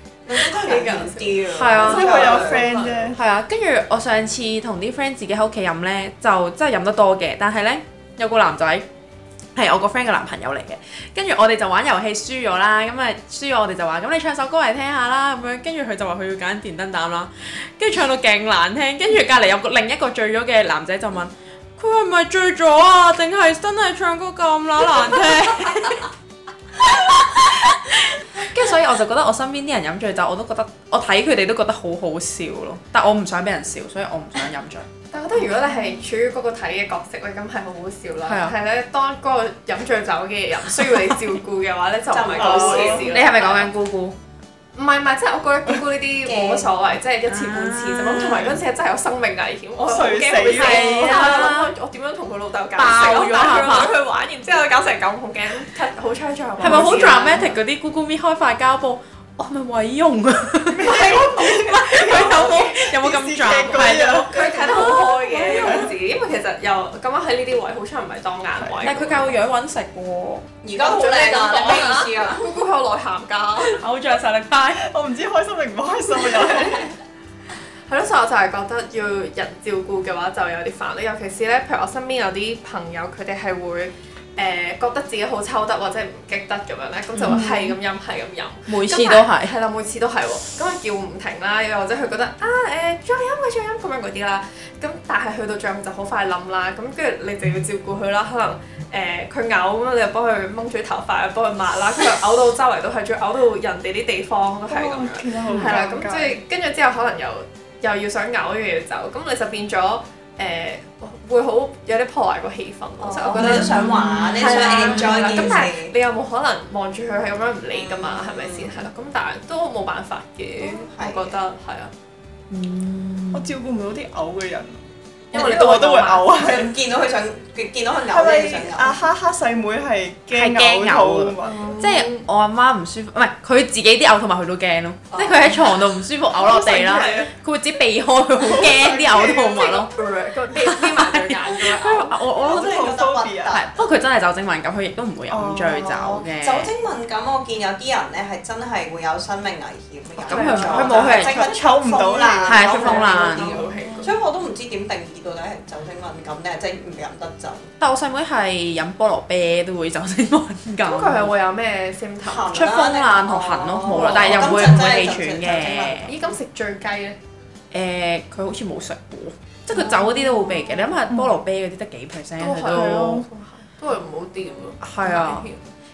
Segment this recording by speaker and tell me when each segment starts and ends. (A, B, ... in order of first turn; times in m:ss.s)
0:00.2-0:02.7 A
0:00.3-0:03.2 B
0:01.5-0:02.1 C
0:01.8-0:03.2 D
0:03.1-0:08.8 C
0:09.5-0:26.1 C
0:26.8-0:34.9 C
0:35.1-0:43.7 B
0:38.2-0:38.5 C
0:42.1-0:43.1 A
0:42.4-0:43.1 D
0:43.0-0:44.1 C
0:44.8-0:57.6 B
0:46.2-0:46.7 A
0:47.3-0:48.5 C
0:49.8-0:51.4 D
0:50.4-0:51.7 C
0:52.8-0:53.9 C
0:56.6-1:05.8 C
0:56.6-0:57.0 D
1:00.7-1:05.9 D
1:00.8-1:02.5 B
1:04.2-1:09.3 B
1:08.6-1:09.0 D
1:08.8-1:10.4 C
1:10.6-1:12.5 A
1:10.8-1:13.8 B
1:13.7-1:14.9 C
1:14.8-1:16.9 D
1:17.9-1:53.7 B
1:27.2-1:27.8 C
1:28.7-1:29.5 C
1:44.7-1:46.4 D
1:45.5-1:45.8 C
1:53.0-1:55.9 A
1:53.4-1:55.6 C
1:54.4-2:01.9 B
1:57.7-1:58.8 A
2:00.6-2:01.4 A
2:02.5-2:03.5 C
2:03.3-2:06.7 D
2:05.3-2:06.4 B
2:06.3-2:09.0 A
2:08.1-2:11.7 D
2:10.3-2:19.9 C
2:11.4-2:12.3 B
2:16.4-2:17.2 D
2:16.5-2:17.3 B
2:18.4-2:19.8 D
2:19.5-2:22.2 B
2:20.5-2:22.9 C
2:22.3-2:23.6 D
2:22.4-2:23.7 A
2:23.5-2:26.7 C
2:25.3-2:26.0 D
2:25.8-2:37.7 A
2:30.2-2:31.4 C
2:30.3-2:31.3 B
2:30.8-2:32.7 D
2:32.4-2:33.5 C
2:32.6-2:34.2 B
2:37.8-2:41.3 C
2:40.8-2:42.5 B
2:42.2-2:46.2 A
2:42.5-2:46.1 C
2:46.1-2:47.2 B
2:47.7-2:53.2 C
2:52.4-2:55.7 B
2:52.7-2:53.2 D
2:54.8-2:55.4 C